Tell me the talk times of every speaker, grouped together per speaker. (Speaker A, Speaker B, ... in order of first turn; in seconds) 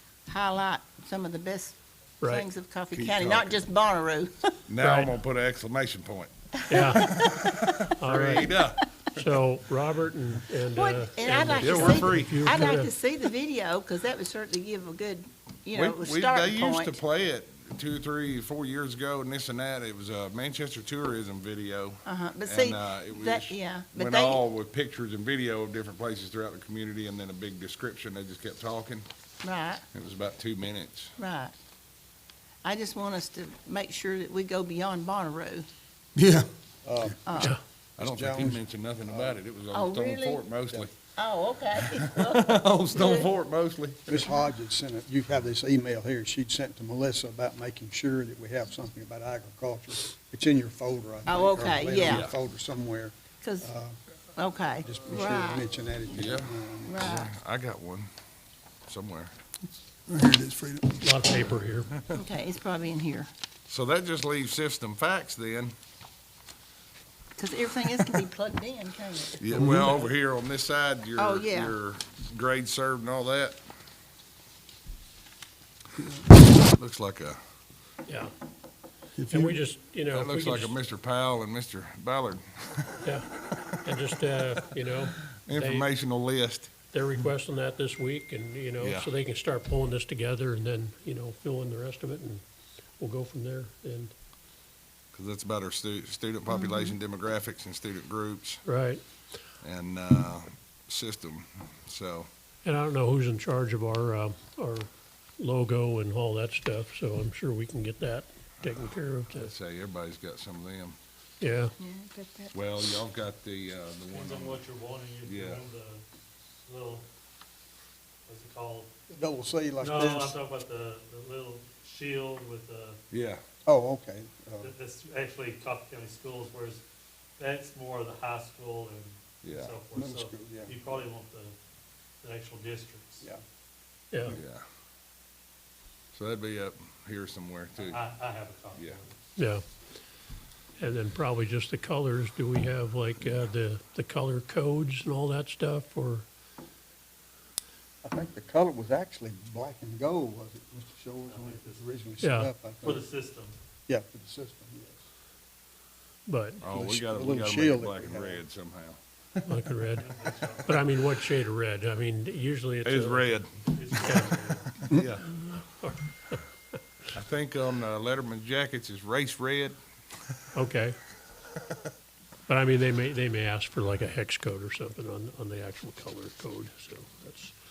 Speaker A: 0.3-4.5, 6.7-7.0, 10.7-17.0, 22.1-24.4, 29.4-29.8, 31.2-31.5, 32.6-35.7, 37.3-37.6, 39.7-40.4, 41.1-43.3, 51.3-52.3, 53.4-53.7, 54.4-55.7, 56.9-57.3, 62.1-63.3, 67.4-69.4, 71.2-71.8, 96.5-97.0, 111.8-112.5
Speaker B: 2.2-2.5, 4.8-5.1, 6.7-7.0, 8.0-8.6, 9.1-13.0, 61.0-61.9, 78.1-78.3, 79.2-80.8, 83.8-85.9, 86.9-92.4, 93.0-94.1, 98.7-99.0, 102.6-109.5, 111.4-111.8, 134.1-134.4, 139.4-139.6, 140.8-146.3, 152.2-152.5, 156.3-156.6, 159.5-160.1, 160.7-163.4, 164.0-164.4, 165.3-166.4, 170.5-170.9, 172.5-177.6
Speaker C: 2.9-3.6, 4.7-9.3, 11.3-12.6, 15.7-29.1, 29.9-31.2, 38.0-41.0, 41.8-44.3, 52.0-52.3, 56.1-58.1, 58.9-59.3, 63.7-65.7, 69.4-73.6, 76.4-77.4, 80.1-83.0, 85.5-86.7, 88.8-89.1, 95.1-98.6, 99.6-102.3, 108.7-111.0, 112.5-114.6, 115.2-115.6, 123.1-123.4, 129.4-129.8, 134.3-134.6, 136.1-138.0, 143.2-143.5, 156.6-159.4, 162.8-164.2, 164.8-165.3, 167.1-169.8
Speaker D: 36.2-36.5, 60.1-60.9, 69.5-70.0, 76.0-76.2, 79.2-79.6
Speaker E: 36.8-39.4, 44.1-54.0, 54.8-57.1, 119.1-120.4, 123.7-124.7, 129.9-130.8, 148.0-153.1, 153.9-155.1, 156.7-158.4
Speaker F: 114.1-116.0, 116.6-117.0, 118.3-118.9, 119.8-123.0, 124.6-126.8, 127.4-131.5, 132.2-133.2, 137.8-139.2, 151.3-151.8, 152.8-153.5, 160.0-160.7, 163.7-164.7